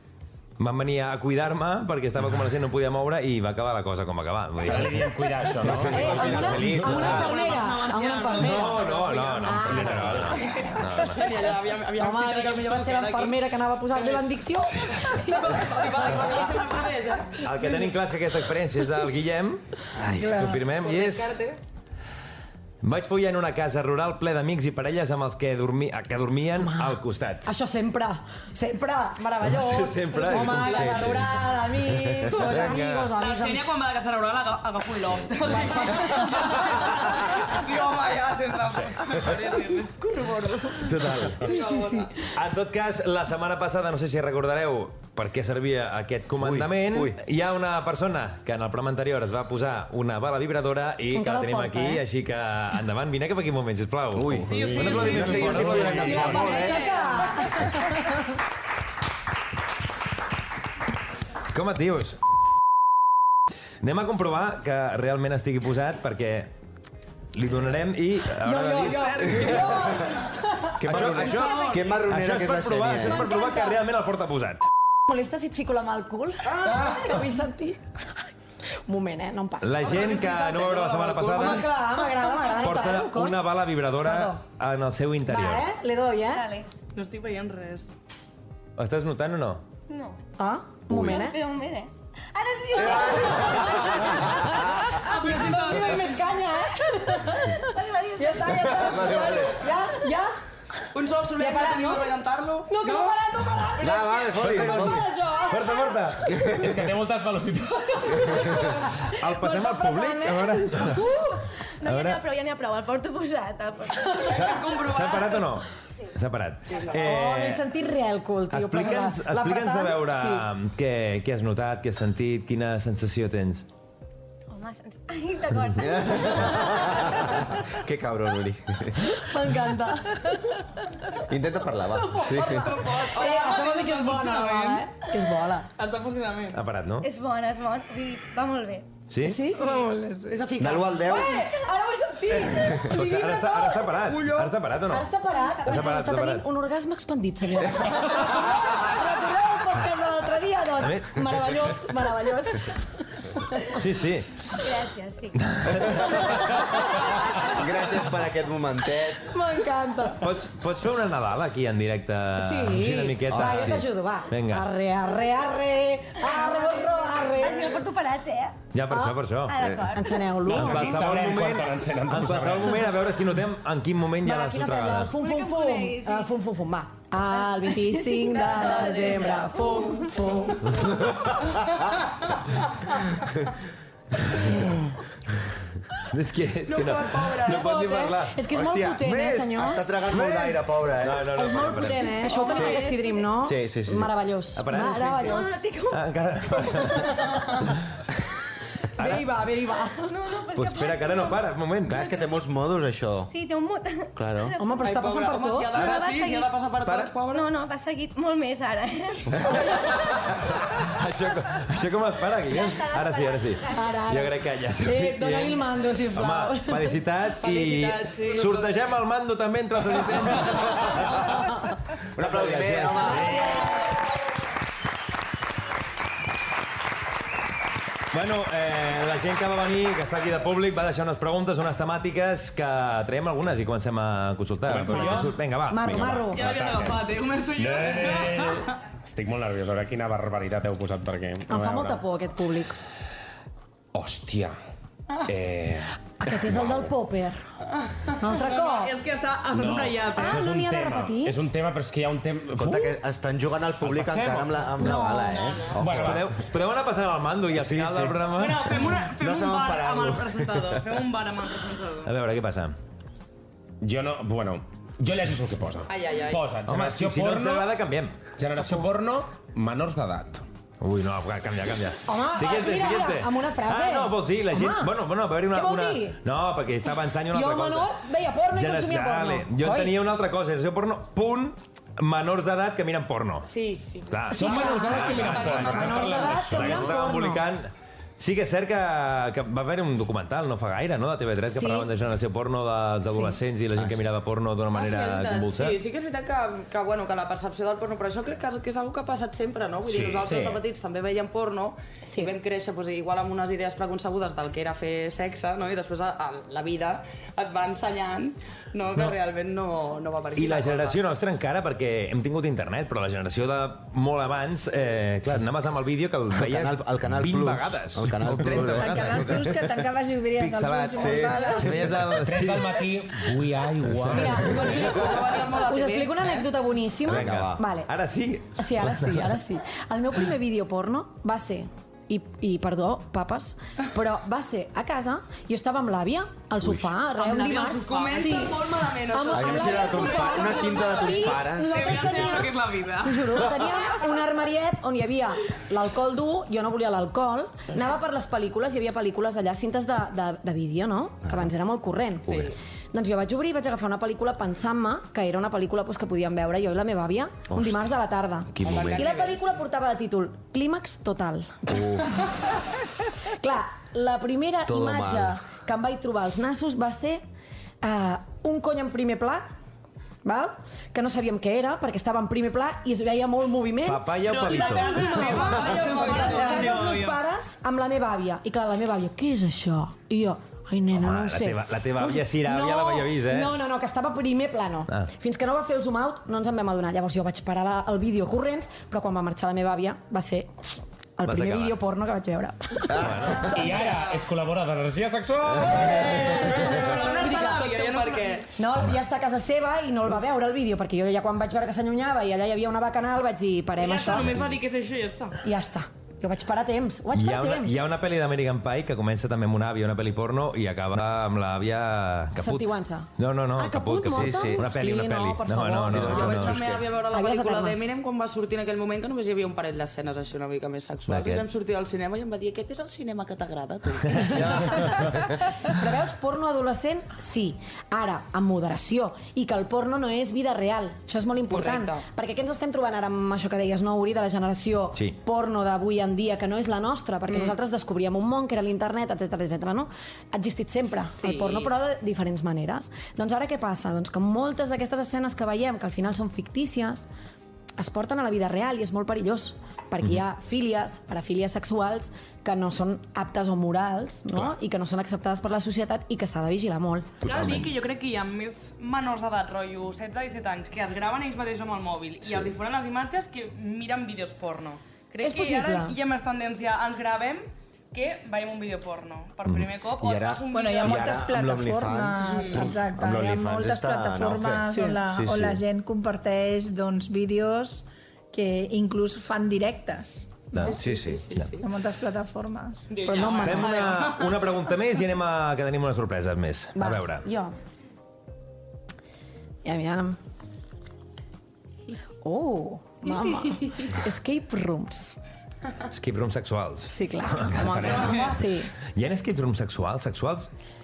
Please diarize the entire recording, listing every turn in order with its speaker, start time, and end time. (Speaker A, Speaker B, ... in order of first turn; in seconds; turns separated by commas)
Speaker A: 0.6-7.3, Speaker B: 4.6-7.1, Speaker C: 5.6-7.4, Speaker D: 5.9-8.8, Speaker E: 7.0-9.7, Speaker A: 8.4-11.3, Speaker D: 9.4-10.7, Speaker B: 9.7-10.4, Speaker F: 10.9-14.2, Speaker D: 12.0-16.6, Speaker A: 14.8-15.2, Speaker F: 15.3-17.9, Speaker A: 17.4-21.3, Speaker G: 20.2-20.6, Speaker F: 20.5-21.6, Speaker A: 22.8-27.5, Speaker D: 26.6-33.7, Speaker A: 29.4-31.3, Speaker C: 30.3-32.4, Speaker A: 32.3-33.1, Speaker E: 33.2-40.9, Speaker D: 35.5-36.7, Speaker D: 40.2-40.9, Speaker A: 40.8-41.6, Speaker E: 41.4-42.1, Speaker D: 41.5-42.1, Speaker F: 41.5-42.0, Speaker A: 42.3-56.6, Speaker C: 46.4-47.2, Speaker D: 51.1-52.0, Speaker C: 54.1-56.9, Speaker E: 54.5-55.8, Speaker B: 55.6-56.1, Speaker D: 55.9-58.2, Speaker F: 56.1-57.5, Speaker A: 61.5-62.2, Speaker A: 63.8-66.5, Speaker A: 67.3-69.7, Speaker D: 68.4-71.8, Speaker C: 70.8-73.3, Speaker A: 70.8-74.7, Speaker H: 71.4-71.7, Speaker D: 73.1-73.8, Speaker D: 75.1-77.8, Speaker F: 76.4-77.2, Speaker D: 78.9-80.0, Speaker A: 79.6-81.7, Speaker F: 79.8-81.7, Speaker D: 81.3-84.4, Speaker A: 82.5-85.7, Speaker D: 85.3-86.5, Speaker H: 86.3-86.7, Speaker E: 86.9-87.9, Speaker A: 88.8-89.6, Speaker H: 89.9-90.2, Speaker D: 90.4-91.4, Speaker C: 90.9-91.2, Speaker H: 90.9-95.8, Speaker C: 92.8-94.6, Speaker D: 92.9-97.6, Speaker E: 95.0-96.2, Speaker H: 97.2-99.5, Speaker D: 98.2-100.3, Speaker C: 98.7-99.6, Speaker F: 100.9-103.2, Speaker D: 101.4-105.8, Speaker C: 103.8-105.0, Speaker A: 104.4-106.5, Speaker H: 105.5-106.0, Speaker C: 106.3-106.6, Speaker B: 106.5-108.6, Speaker D: 108.1-111.2, Speaker A: 109.0-111.2, Speaker H: 111.8-114.7, Speaker A: 111.8-112.2, Speaker F: 114.3-115.5, Speaker A: 114.4-117.6, Speaker D: 116.9-120.5, Speaker A: 118.5-123.7, Speaker H: 124.5-127.2, Speaker C: 125.8-129.2, Speaker D: 129.2-130.4, Speaker C: 131.3-132.7, Speaker E: 132.2-136.6, Speaker D: 132.2-135.7, Speaker A: 136.5-137.1, Speaker H: 137.0-138.9, Speaker A: 139.1-139.4, Speaker D: 139.2-139.7, Speaker G: 139.6-140.5, Speaker F: 140.3-141.1, Speaker C: 140.6-141.5, Speaker D: 141.0-144.0, Speaker C: 142.4-142.8, Speaker A: 142.9-146.4, Speaker F: 144.1-144.4, Speaker D: 144.9-152.8, Speaker A: 150.8-151.7, Speaker A: 153.8-154.3, Speaker H: 154.5-155.8, Speaker A: 155.5-156.6, Speaker C: 157.4-159.3, Speaker D: 159.3-160.3, Speaker A: 160.2-164.7, Speaker D: 162.4-167.8, Speaker C: 163.3-163.8, Speaker H: 166.2-168.6, Speaker A: 168.7-169.6, Speaker D: 168.9-169.2, Speaker H: 169.5-170.4, Speaker D: 169.9-171.0, Speaker A: 170.5-175.1, Speaker B: 170.5-172.8, Speaker D: 174.2-180.8, Speaker H: 175.1-176.3, Speaker H: 177.3-180.1, Speaker F: 178.3-179.9, Speaker C: 181.1-181.8, Speaker A: 186.1-188.5, Speaker F: 186.7-187.8, Speaker D: 187.5-190.0, Speaker C: 188.5-191.3, Speaker A: 190.1-192.1, Speaker D: 191.3-195.6, Speaker H: 192.2-193.4, Speaker C: 192.5-192.9, Speaker C: 193.4-194.2, Speaker A: 194.6-197.7, Speaker H: 194.7-197.1, Speaker D: 199.0-200.1, Speaker A: 199.0-199.3, Speaker H: 200.0-201.5, Speaker A: 200.5-202.0, Speaker C: 201.9-203.3, Speaker H: 203.3-205.0, Speaker C: 204.2-204.6, Speaker D: 204.6-205.7, Speaker F: 204.8-207.5, Speaker H: 205.7-206.6, Speaker A: 206.8-207.1, Speaker H: 207.2-210.0, Speaker A: 210.8-221.6, Speaker H: 212.5-214.0, Speaker D: 213.7-217.0, Speaker F: 217.4-218.7, Speaker C: 222.2-223.6, Speaker A: 222.2-223.8, Speaker A: 228.1-236.3, Speaker B: 234.7-242.0, Speaker D: 234.9-236.5, Speaker E: 236.3-238.8, Speaker D: 241.5-242.8, Speaker B: 243.9-244.6, Speaker B: 245.3-246.9, Speaker D: 246.2-247.4, Speaker D: 248.2-248.9, Speaker E: 248.3-250.4, Speaker B: 249.5-253.0, Speaker D: 250.1-251.5, Speaker C: 252.6-256.3, Speaker B: 253.8-254.9, Speaker D: 254.8-255.7, Speaker B: 255.8-256.2, Speaker A: 255.8-259.0, Speaker C: 257.5-258.3, Speaker E: 258.3-262.1, Speaker C: 259.0-260.8, Speaker A: 262.0-262.8, Speaker B: 263.8-267.8, Speaker F: 265.9-266.6, Speaker A: 266.6-268.2, Speaker B: 268.4-270.4, Speaker A: 270.8-277.9, Speaker D: 272.1-275.0, Speaker D: 275.5-276.2, Speaker D: 277.3-280.0, Speaker A: 278.5-283.5, Speaker F: 283.5-286.5, Speaker A: 284.1-295.8, Speaker D: 284.3-287.4, Speaker B: 284.3-287.0, Speaker D: 291.5-291.9, Speaker C: 293.8-294.0, Speaker F: 294.7-311.0, Speaker B: 300.1-300.6, Speaker A: 310.4-319.4, Speaker C: 316.3-319.7, Speaker G: 318.6-321.9, Speaker A: 320.4-323.2, Speaker C: 321.0-322.1, Speaker B: 322.2-324.6, Speaker D: 324.1-327.9, Speaker F: 324.5-326.5, Speaker A: 327.1-329.2, Speaker C: 327.1-327.6, Speaker D: 328.6-352.4, Speaker E: 337.2-338.5, Speaker F: 337.3-341.2, Speaker C: 339.3-342.3, Speaker E: 341.6-343.5, Speaker C: 352.3-352.5, Speaker F: 352.3-352.5, Speaker D: 352.9-361.8, Speaker C: 357.5-357.9, Speaker C: 358.5-359.1, Speaker F: 358.6-359.6, Speaker C: 361.7-362.2, Speaker D: 363.4-367.2, Speaker C: 364.7-365.4, Speaker D: 367.8-369.5, Speaker D: 370.2-394.0, Speaker A: 373.9-375.5, Speaker E: 374.2-377.2, Speaker F: 375.0-376.8, Speaker A: 380.9-383.5, Speaker A: 391.2-391.8, Speaker C: 392.9-393.5, Speaker A: 392.9-393.5, Speaker B: 393.5-396.6, Speaker F: 393.6-394.2, Speaker F: 395.8-398.5, Speaker D: 396.0-397.7, Speaker E: 396.3-398.4, Speaker D: 398.6-404.4, Speaker E: 403.8-405.4, Speaker A: 404.2-404.6, Speaker D: 405.4-407.9, Speaker A: 407.1-416.6, Speaker D: 412.4-416.6, Speaker C: 414.1-414.7, Speaker C: 415.9-416.8, Speaker F: 416.1-424.5, Speaker D: 417.1-417.8, Speaker A: 421.1-421.4, Speaker C: 424.3-425.2, Speaker D: 424.4-425.0, Speaker D: 425.7-447.1, Speaker F: 431.5-432.1, Speaker F: 437.3-437.6, Speaker F: 441.2-441.7, Speaker D: 447.8-457.1, Speaker E: 457.2-471.3, Speaker A: 457.2-457.7, Speaker D: 465.2-466.0, Speaker C: 470.0-475.6, Speaker G: 470.5-480.7, Speaker D: 474.7-475.0, Speaker A: 480.5-480.8, Speaker F: 480.6-481.6, Speaker C: 480.6-481.3, Speaker G: 481.6-482.9, Speaker E: 482.9-484.5, Speaker D: 483.0-484.0, Speaker A: 483.2-487.3, Speaker D: 486.8-487.5, Speaker D: 489.6-490.2, Speaker D: 492.2-495.1, Speaker A: 495.9-498.4, Speaker D: 496.9-498.7, Speaker E: 497.9-498.3, Speaker A: 498.9-500.5